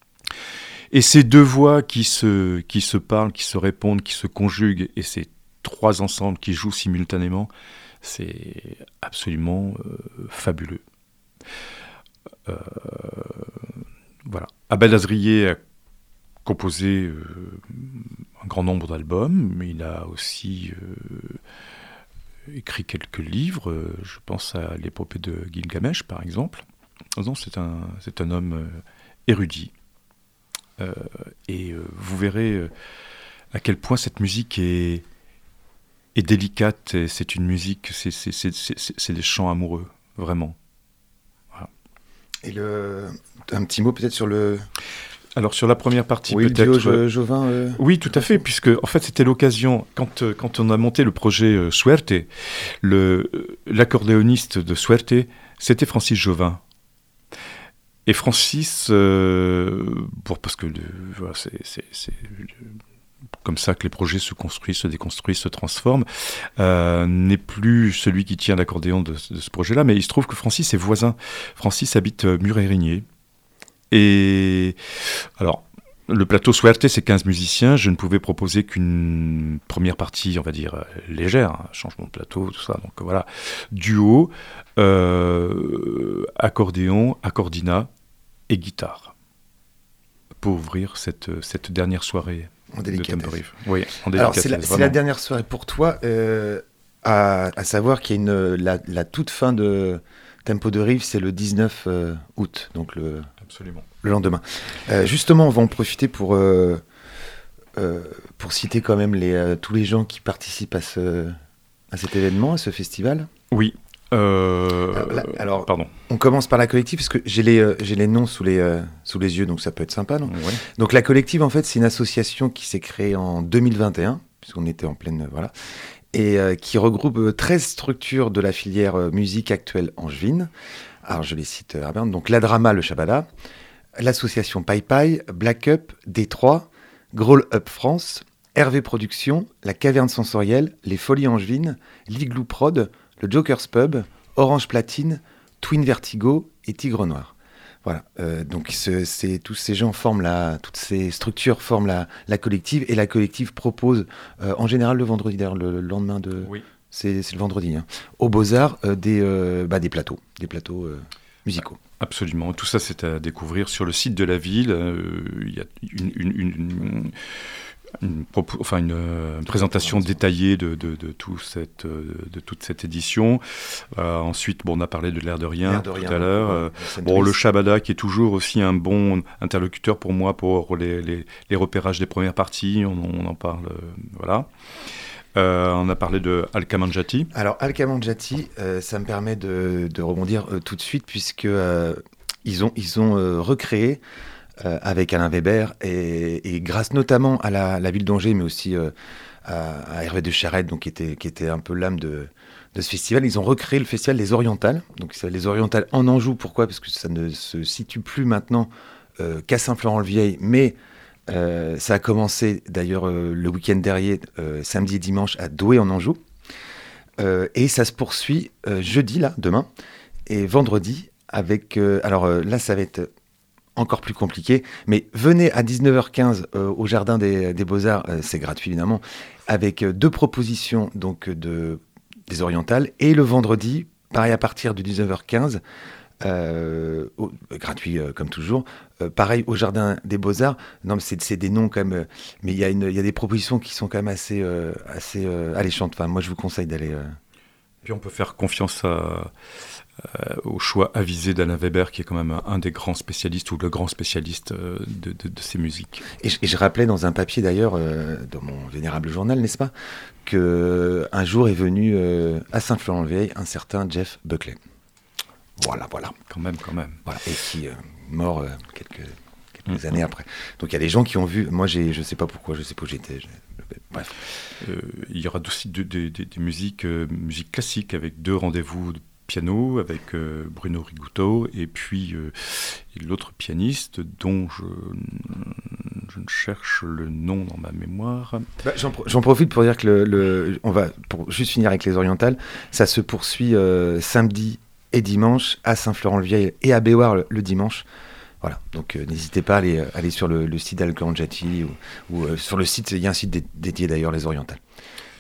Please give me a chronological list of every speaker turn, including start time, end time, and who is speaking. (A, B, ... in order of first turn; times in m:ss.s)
0:00.9-0:07.5 A
0:08.0-0:10.8 A
0:12.5-0:15.6 A
0:16.4-0:21.4 A
0:22.5-0:26.6 A
0:27.2-0:29.7 A
0:30.8-0:32.7 A
0:33.5-0:35.0 A
0:36.1-0:40.6 A
0:42.4-0:44.6 B
0:45.4-0:47.0 A
0:46.3-0:48.4 B
0:47.8-0:56.6 A
0:58.0-1:02.7 A
1:03.4-1:13.0 A
1:13.9-1:14.8 A
1:15.4-1:27.9 A
1:28.5-1:29.1 A
1:30.4-1:35.0 A
1:32.7-1:33.4 B
1:34.1-1:43.3 B
1:43.4-1:43.8 A
1:44.0-1:46.8 B
1:47.8-1:51.4 B
1:51.9-1:53.3 B
1:53.5-1:55.9 A
1:54.9-2:05.5 B
2:00.2-2:00.6 A
2:06.1-2:10.5 B
2:11.0-2:13.3 B
2:14.0-2:41.8 B
2:42.0-3:04.5 A
2:49.4-2:50.2 B
2:55.6-2:57.4 B
3:05.4-3:07.3 A
3:07.3-3:14.0 B
3:14.6-3:18.9 B
3:19.4-3:36.2 B
3:37.2-3:39.7 B
3:40.2-3:43.1 B
3:43.8-3:55.6 B
3:56.2-4:07.2 B
4:07.8-4:09.3 A
4:10.0-4:16.0 A
4:16.2-4:19.7 B
4:20.2-4:24.6 B
4:25.6-4:26.1 B
4:26.3-4:27.0 A
4:27.0-4:34.1 B
4:34.6-4:48.5 A
4:48.6-4:57.8 B
4:58.4-5:04.6 B